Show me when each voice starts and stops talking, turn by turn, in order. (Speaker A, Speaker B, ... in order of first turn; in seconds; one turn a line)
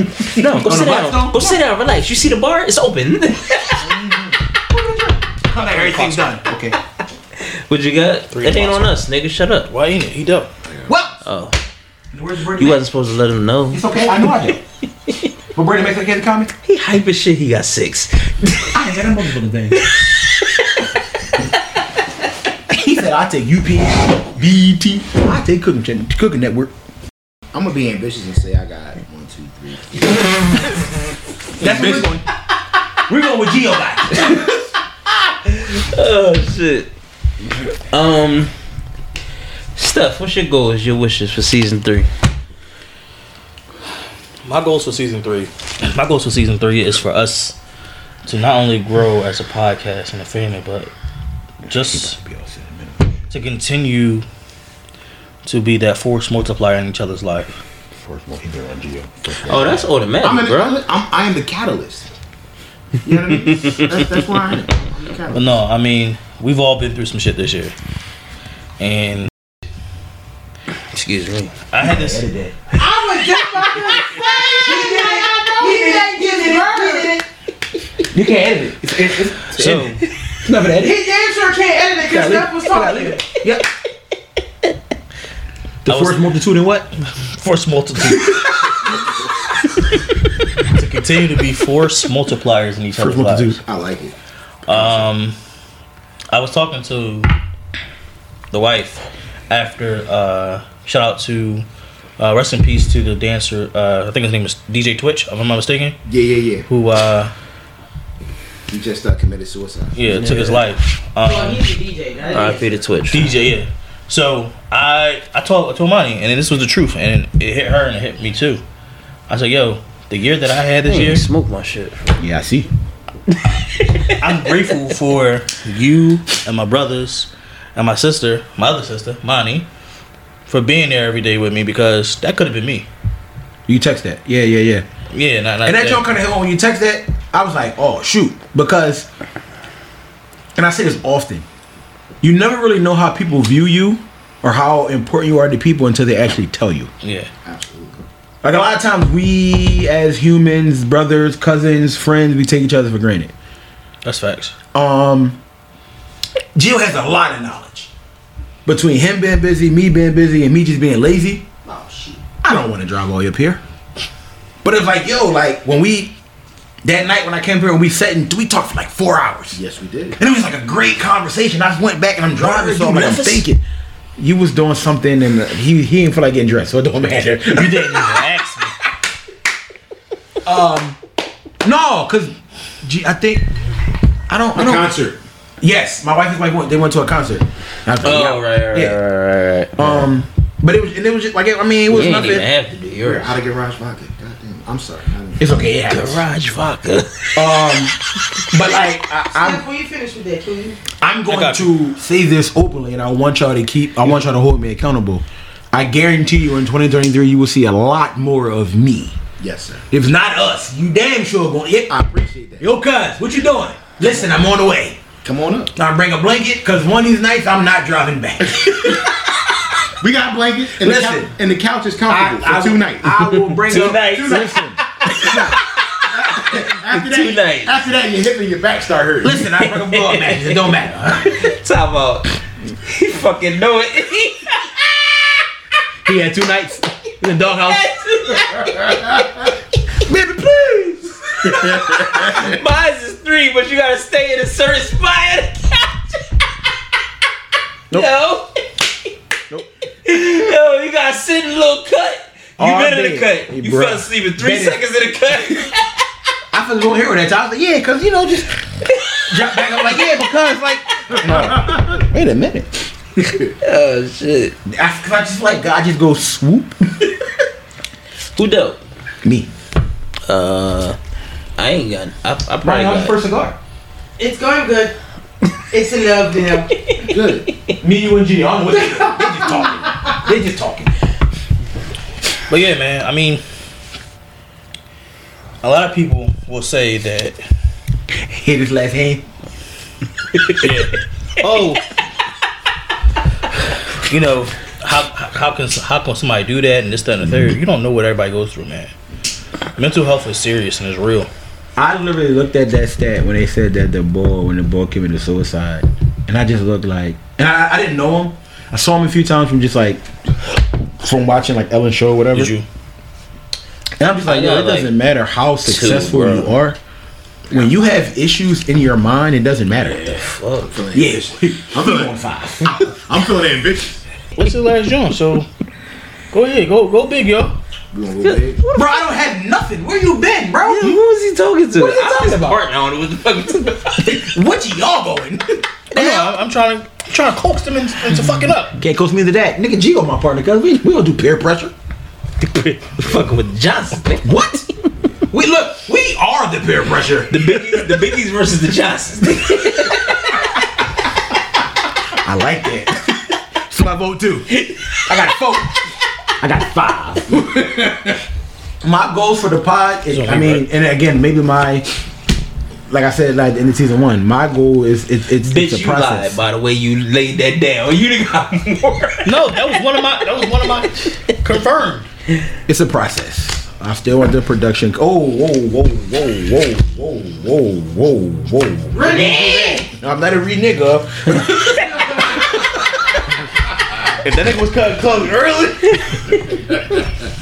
Speaker A: 0.3-4.0
Speaker B: 0.4-1.6
Speaker C: 3.9-4.3
Speaker B: 4.7-6.8
Speaker D: 5.6-6.3
Speaker A: 7.4-9.7
Speaker D: 8.3-8.9
Speaker D: 9.7-10.5
Speaker B: 10.9-11.2
Speaker A: 11.2-11.6
Speaker B: 12.1-12.8
Speaker A: 12.6-14.3
Speaker B: 13.7-14.6
Speaker B: 15.5-16.5
Speaker A: 16.6-18.8
Speaker B: 18.7-19.8
Speaker A: 19.8-20.8
Speaker B: 22.7-26.7
Speaker C: 27.5-30.8
Speaker B: 31.6-32.3
Speaker C: 31.6-32.1
Speaker B: 33.1-34.5
Speaker A: 35.2-36.9
Speaker A: 37.9-38.5
Speaker A: 39.8-42.1
Speaker D: 44.5-47.6
Speaker D: 48.3-50.9
Speaker D: 51.7-52.2
Speaker B: 51.7-53.2
Speaker D: 53.3-54.2
Speaker D: 55.5-57.6
Speaker B: 58.0-59.9
Speaker A: 59.4-60.8
Speaker C: 60.2-62.1
Speaker C: 63.0-65.6
Speaker D: 65.3-67.7
Speaker D: 68.8-69.3
Speaker A: 70.9-71.5
Speaker D: 71.7-72.3
Speaker B: 71.8-72.6
Speaker E: 72.8-77.2
Speaker B: 74.5-77.2
Speaker B: 78.1-79.9
Speaker D: 79.5-80.0
Speaker B: 80.4-81.2
Speaker E: 80.8-83.2
Speaker B: 82.0-83.7
Speaker B: 85.8-86.9
Speaker D: 85.9-86.3
Speaker D: 87.2-88.6
Speaker D: 90.7-93.6
Speaker B: 93.0-93.6
Speaker C: 93.5-94.2
Speaker C: 94.7-95.1
Speaker D: 94.7-95.3
Speaker D: 96.3-97.3
Speaker D: 98.5-101.7
Speaker D: 102.2-106.0
Speaker C: 106.1-106.7
Speaker D: 106.7-107.3
Speaker C: 108.7-110.6
Speaker D: 110.0-111.7
Speaker A: 110.1-110.6
Speaker E: 111.2-112.8
Speaker A: 112.3-113.4
Speaker D: 113.1-118.6
Speaker D: 119.3-121.3
Speaker A: 120.8-122.2
Speaker B: 122.2-122.7
Speaker A: 123.5-124.2
Speaker D: 124.2-129.7
Speaker D: 130.5-132.9
Speaker B: 133.7-134.9
Speaker D: 135.1-136.1
Speaker B: 135.6-139.1
Speaker B: 140.6-141.5
Speaker B: 142.2-146.9
Speaker D: 147.0-147.3
Speaker C: 147.4-148.1
Speaker B: 148.4-153.3
Speaker D: 154.0-154.6
Speaker B: 154.7-155.4
Speaker B: 156.6-157.9
Speaker B: 158.7-161.6
Speaker C: 161.7-162.2
Speaker B: 162.3-163.6
Speaker B: 164.6-166.2
Speaker B: 166.8-169.6
Speaker C: 169.5-170.2
Speaker B: 170.2-173.6
Speaker A: 172.5-173.3
Speaker D: 172.7-173.3
Speaker B: 174.2-178.7
Speaker D: 177.6-178.7
Speaker B: 180.4-181.0
Speaker B: 181.6-183.5
Speaker B: 184.3-185.0
Speaker C: 184.5-185.2
Speaker B: 185.6-189.0
Speaker A: 188.0-190.0
Speaker B: 189.8-192.5
Speaker A: 191.9-193.4
Speaker C: 193.0-195.6
Speaker B: 195.4-196.2
Speaker A: 195.9-197.7
Speaker B: 197.3-197.9
Speaker B: 198.5-199.6
Speaker E: 199.3-200.8
Speaker B: 201.0-209.2
Speaker D: 201.3-201.7
Speaker C: 209.4-209.9
Speaker B: 209.9-211.9
Speaker C: 211.9-212.7
Speaker B: 212.6-215.0
Speaker C: 215.2-215.7
Speaker B: 215.8-219.1
Speaker C: 218.6-219.1
Speaker C: 220.0-224.5
Speaker B: 220.8-221.3
Speaker B: 222.1-225.6
Speaker A: 223.3-227.7
Speaker C: 226.1-229.5
Speaker B: 229.2-231.5
Speaker A: 229.6-230.7
Speaker A: 231.2-232.3
Speaker A: 232.8-235.5
Speaker B: 236.1-237.9
Speaker A: 237.4-239.1
Speaker B: 238.9-239.3
Speaker B: 240.0-242.0
Speaker C: 241.5-242.5
Speaker A: 241.6-246.2
Speaker A: 247.9-249.1
Speaker A: 250.1-255.9
Speaker B: 252.6-254.8
Speaker B: 256.5-258.6
Speaker A: 258.9-260.2
Speaker B: 259.3-262.9
Speaker A: 261.0-261.3
Speaker C: 263.2-263.5
Speaker A: 263.6-264.6
Speaker B: 264.7-267.1
Speaker A: 268.4-268.8
Speaker B: 269.2-269.5
Speaker A: 270.3-271.0
Speaker A: 271.6-273.2
Speaker B: 272.6-273.6
Speaker E: 274.2-274.9
Speaker E: 275.7-276.7
Speaker A: 276.9-277.7
Speaker C: 277.0-277.5
Speaker B: 277.8-280.9
Speaker D: 282.5-283.4
Speaker D: 285.6-287.4
Speaker B: 288.2-289.2
Speaker D: 290.6-291.8
Speaker D: 294.0-298.9
Speaker D: 299.8-301.3
Speaker B: 301.8-310.0
Speaker B: 311.0-312.5
Speaker D: 312.3-312.6
Speaker B: 314.0-316.8
Speaker A: 314.1-314.9
Speaker A: 315.6-316.5
Speaker B: 317.5-320.2
Speaker A: 319.8-320.8
Speaker C: 320.7-321.2
Speaker B: 320.9-322.8
Speaker C: 321.7-322.1
Speaker C: 322.6-324.0
Speaker D: 324.4-325.5
Speaker D: 326.3-327.6
Speaker C: 327.9-328.6
Speaker A: 328.2-328.9
Speaker B: 328.7-331.0
Speaker A: 330.6-334.3
Speaker B: 331.8-332.6
Speaker B: 334.0-336.3
Speaker D: 335.9-338.8
Speaker B: 338.7-341.7
Speaker A: 342.5-344.6
Speaker B: 344.2-344.6
Speaker B: 345.3-348.1
Speaker A: 347.3-350.4
Speaker B: 352.1-352.9
Speaker B: 353.6-354.5
Speaker B: 355.1-355.8
Speaker B: 356.4-358.2
Speaker B: 358.8-361.9
Speaker D: 360.1-360.6
Speaker B: 362.9-366.4
Speaker A: 365.4-369.7
Speaker D: 369.2-372.1
Speaker B: 372.7-382.4
Speaker E: 378.9-379.9
Speaker A: 379.1-379.8
Speaker A: 381.4-381.8
Speaker E: 381.9-382.3
Speaker B: 384.2-385.7
Speaker A: 385.9-387.0